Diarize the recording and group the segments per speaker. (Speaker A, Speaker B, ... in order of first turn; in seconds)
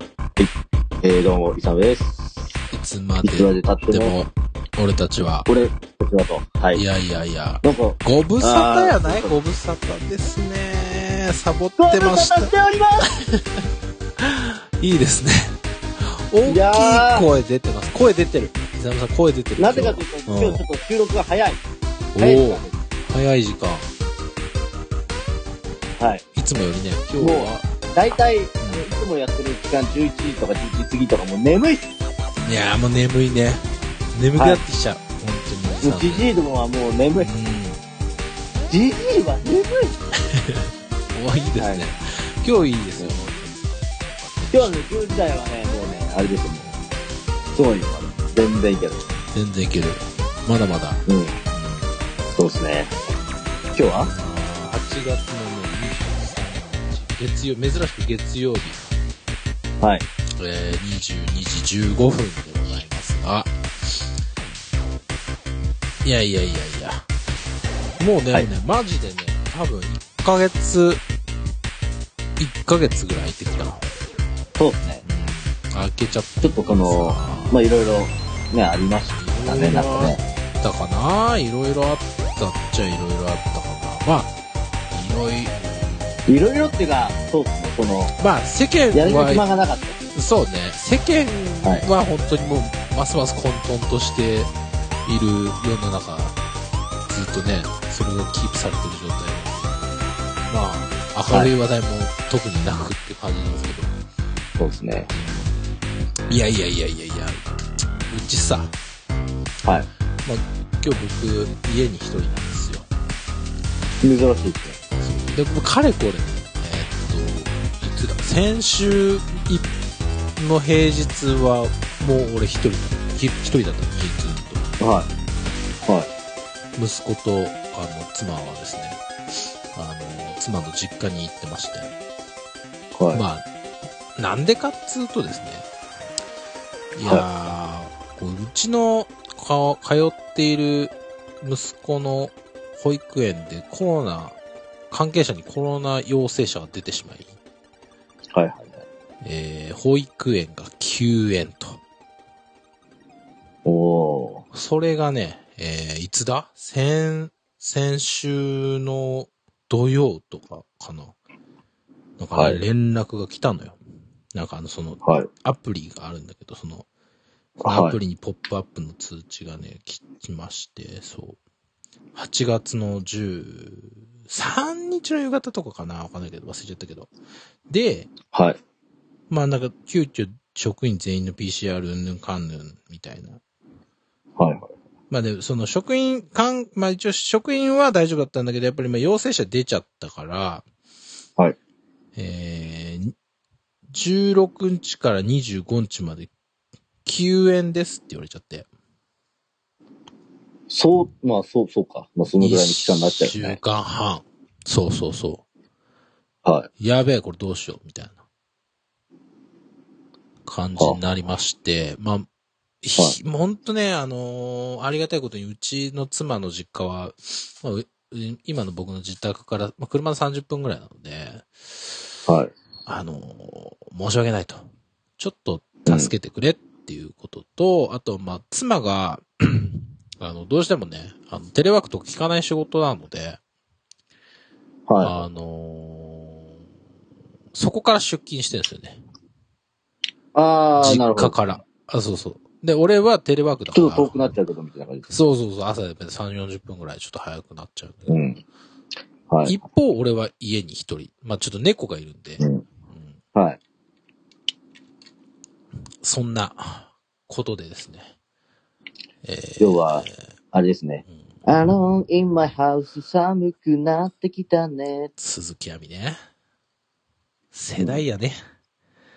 Speaker A: 1.0-2.5, 3.2-4.2, 5.5-6.8, 7.6-9.3, 11.8-13.1, 16.5-17.3, 19.6-21.6, 22.2-22.8, 26.0-26.2, 27.2-31.9, 34.4-34.6, 35.8-37.3, 38.7-39.9, 41.6-41.8, 43.0-43.3, 44.5-46.7, 47.5-49.1, 51.1-51.4, 52.3-52.9, 53.8-54.1, 59.8-60.1, 74.6-75.0, 76.4-80.2, 86.3-88.1, 88.9-90.0, 101.2-101.5, 104.6-105.1, 114.0-114.8, 124.8-125.1, 133.0-133.2, 148.3-148.8, 153.7-154.4, 162.3-162.6, 165.0-165.3, 167.6-168.0, 178.3-178.6, 184.4-184.7, 200.7-203.6, 206.4-206.7, 222.3-222.5, 225.8-226.1, 234.9-235.3, 240.3-241.6, 243.7-245.1, 248.1-248.4, 249.3-249.6, 252.4-252.7, 259.6-265.1
Speaker B: 2.7-5.5, 6.7-12.5, 13.2-13.6, 14.2-20.6, 22.1-23.9, 26.4-27.7, 28.6-28.9, 32.4-36.3, 37.2-37.8, 40.3-44.8, 49.3-52.4, 54.0-58.9, 60.4-64.1, 66.0-67.1, 68.0-71.0, 72.4-73.9, 75.0-77.6, 79.1-84.3, 84.9-86.3, 88.2-89.5, 90.1-94.5, 95.1-96.4, 97.1-99.9, 100.5-103.9, 105.1-105.5, 106.3-108.7, 110.2-112.9, 114.9-119.7, 120.4-124.7, 126.8-131.9, 133.1-133.4, 134.2-135.7, 136.9-144.4, 144.9-147.3, 149.2-151.8, 154.5-161.2, 162.2-163.8, 164.3-166.9, 167.7-171.4, 172.2-177.1, 177.7-178.1, 179.3-183.4, 185.1-190.7, 192.2-193.1, 193.9-196.3, 197.1-198.7, 202.4-205.4, 206.8-208.2, 210.4-212.3, 212.8-221.9, 222.9-224.6, 225.2-233.4, 235.0-236.5, 237.5-239.0, 240.8-244.4, 245.1-248.1, 249.4-253.2, 256.0-258.1, 259.2-260.1, 265.2-266.2, 267.5-268.4